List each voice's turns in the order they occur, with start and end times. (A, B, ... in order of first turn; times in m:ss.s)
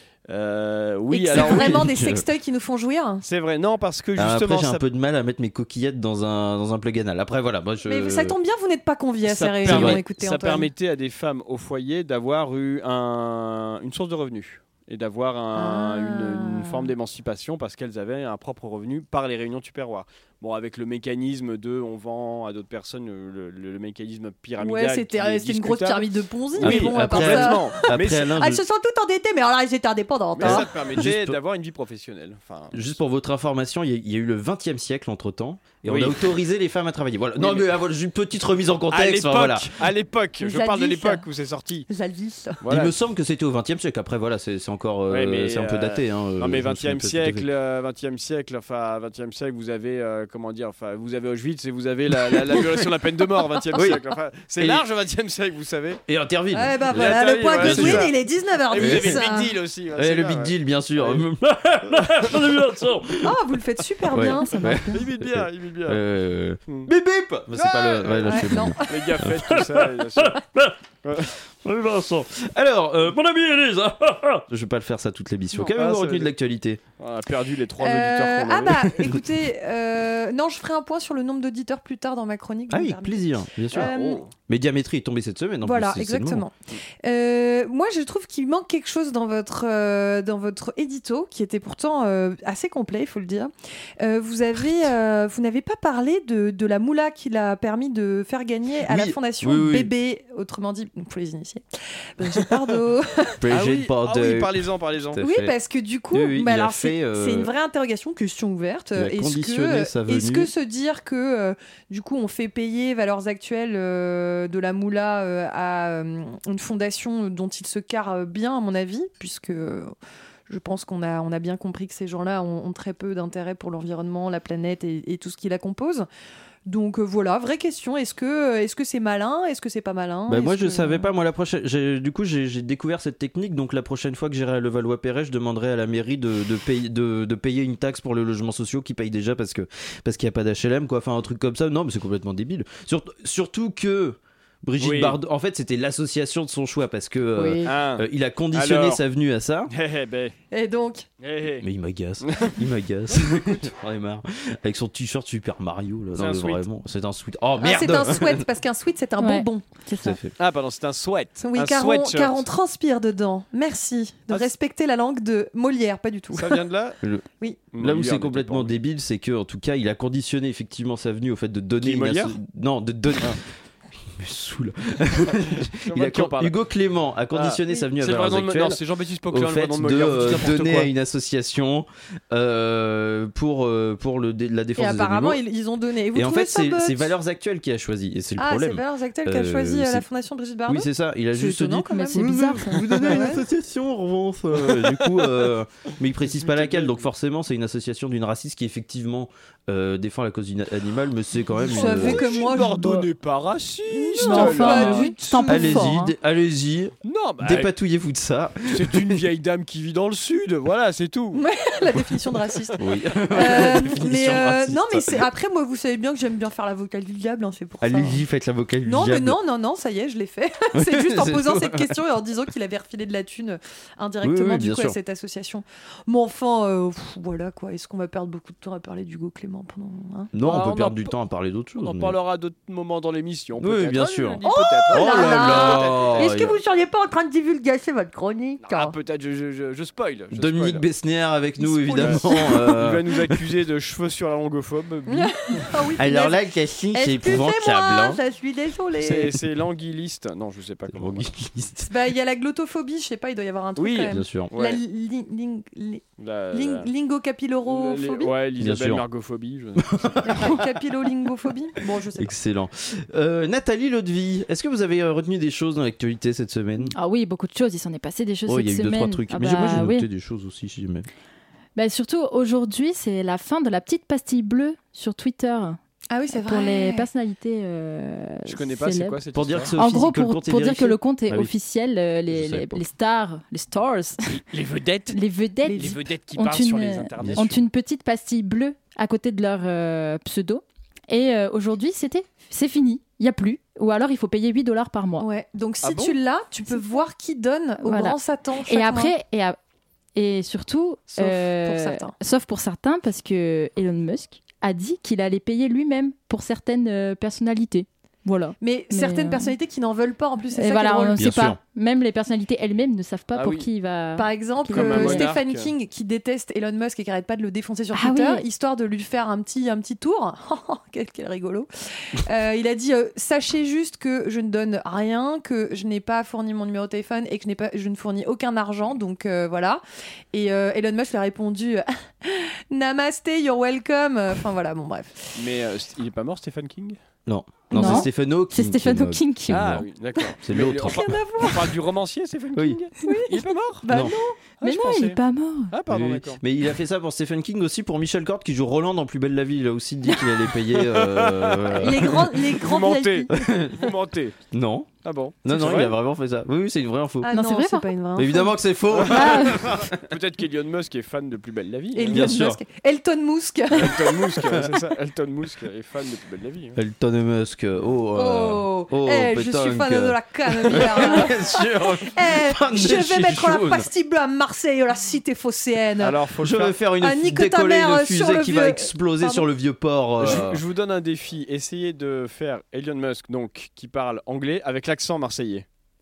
0:00.3-0:01.9 A
0:01.1-0:03.2 B
0:01.3-0:02.2 C
0:03.2-0:04.9 A
0:04.2-0:08.3 C
0:07.8-0:10.7 B
0:09.2-0:28.3 A
0:09.6-0:10.0 C
0:15.5-0:16.9 B
0:24.6-0:30.7 B
0:26.6-0:28.6 C
0:30.3-0:33.0 A
0:30.4-0:31.4 C
0:32.7-0:39.8 C
0:35.8-0:36.2 A
0:37.4-0:37.7 A
0:38.9-0:41.9 A
0:40.4-0:41.2 B
0:41.9-0:42.6 B
0:42.6-0:42.9 A
0:42.7-0:47.5 C
0:45.1-0:56.0 A
0:52.3-0:52.6 C
0:53.7-0:54.0 C
0:54.6-0:54.8 C
0:56.1-0:58.1 C
0:56.5-0:59.5 B
0:56.9-0:58.2 A
0:58.7-1:01.2 A
0:58.8-0:59.2 C
1:00.0-1:03.3 C
1:01.8-1:02.9 A
1:03.2-1:05.0 B
1:04.1-1:16.8 C
1:04.7-1:06.0 A
1:07.5-1:10.4 A
1:08.3-1:09.1 B
1:11.0-1:11.3 A
1:15.6-1:16.3 A
1:17.0-1:18.9 A
1:17.8-1:24.3 B
1:22.7-1:23.9 C
1:23.7-1:24.3 A
1:24.5-1:26.4 C
1:25.6-1:41.6 B
1:38.9-1:39.9 C
1:42.2-1:43.4 B
1:43.4-1:45.5 C
1:43.5-1:45.2 A
1:45.2-1:59.9 B
1:46.1-1:47.5 C
1:49.0-1:50.5 C
2:00.5-2:06.1 B
2:06.6-2:11.1 B
2:10.3-2:29.7 C
2:24.8-2:25.2 A
2:27.4-2:27.7 D
2:27.6-2:29.0 A
2:29.7-2:30.3 A
2:30.5-2:31.1 B
2:31.2-2:31.6 A
2:31.6-2:38.4 C
2:32.2-2:32.6 A
2:33.1-2:33.6 A
2:36.1-2:36.6 A
2:37.6-2:39.6 B
2:39.2-2:40.2 D
2:40.0-2:40.3 C
2:40.4-2:42.4 A
2:41.4-2:46.6 B
2:46.3-2:47.0 A
2:47.7-2:48.8 A
2:47.8-2:53.4 C
2:51.8-2:52.4 A
2:54.1-3:05.4 C
2:55.7-2:56.5 A
2:57.3-3:00.9 A
3:04.8-3:07.1 B
3:06.1-3:10.0 C
3:08.4-3:13.4 B
3:10.7-3:22.2 C
3:11.9-3:13.2 D
3:14.6-3:15.5 A
3:16.2-3:17.1 A
3:21.6-3:23.1 B
3:21.6-3:25.6 A
3:23.9-3:25.9 B
3:24.2-3:26.1 D
3:25.5-3:29.2 C
3:27.0-3:27.7 A
3:28.7-3:31.4 A
3:31.3-3:32.8 B
3:32.8-3:35.2 C
3:33.3-3:38.2 B
3:33.4-3:33.7 A
3:37.8-3:39.4 C
3:38.8-3:50.3 B
3:40.7-3:41.9 C
3:44.2-3:45.0 C
3:50.3-3:52.2 C
3:50.4-3:51.1 A
3:51.8-3:56.6 A
3:53.6-3:56.6 C
3:54.4-3:59.0 B
3:58.6-4:00.8 A
4:00.3-4:03.3 C
4:01.6-4:02.6 B
4:02.0-4:02.2 A
4:02.7-4:05.7 A
4:05.1-4:06.4 B
4:06.0-4:08.2 C
4:06.9-4:09.3 B
4:09.0-4:11.3 A
4:10.9-4:11.9 C
4:11.9-4:18.3 B
4:13.8-4:14.8 A
4:14.1-4:14.5 C
4:16.2-4:16.9 A
4:17.6-4:20.5 A
4:18.6-4:19.0 C
4:19.8-4:20.5 C
4:20.2-4:22.3 B
4:22.2-4:26.9 C
4:26.9-4:30.0 D
4:28.4-4:31.1 C
4:31.8-4:35.8 D
4:36.1-4:37.1 B
4:36.3-4:39.2 D
4:38.4-4:39.7 A
4:39.3-4:41.5 C
4:39.7-4:44.4 D
4:42.3-4:42.8 C
4:44.3-4:47.6 A
4:45.1-4:55.2 D
4:47.2-4:47.5 C
4:55.2-4:59.1 B
4:55.8-4:56.2 A
4:57.8-4:58.2 D
4:58.7-4:59.6 D
5:00.2-5:09.5 D
5:01.1-5:02.1 B
5:08.6-5:11.3 B
5:10.5-5:15.3 D
5:11.2-5:11.6 C
5:13.3-5:13.7 A
5:14.2-5:29.8 B
5:14.7-5:15.7 A
5:17.9-5:18.4 D
5:30.3-5:35.3 B
5:35.3-5:37.0 A
5:37.2-5:39.8 C
5:37.7-5:39.8 D
5:39.5-5:43.9 A
5:40.4-5:41.0 C
5:40.8-5:41.7 B
5:43.0-5:44.4 B
5:43.9-5:44.1 C
5:44.6-5:45.2 A
5:44.6-5:45.7 D
5:45.7-5:46.4 A
5:45.9-5:52.2 C
5:50.7-5:54.4 A
5:51.8-5:53.3 B
5:53.3-5:53.8 C
5:54.5-5:54.9 C
5:55.0-5:56.0 A
5:55.4-5:57.3 C
5:57.2-5:58.5 B
5:57.3-5:57.9 D
5:58.2-6:00.0 C
5:58.9-6:02.3 A
5:59.1-5:59.6 D
6:01.9-6:04.1 B
6:02.1-6:02.6 C
6:03.7-6:06.8 A
6:06.8-6:13.9 C
6:08.1-6:16.2 B
6:16.0-6:16.8 A
6:16.4-6:20.6 C
6:17.0-6:19.4 B
6:20.2-6:25.6 A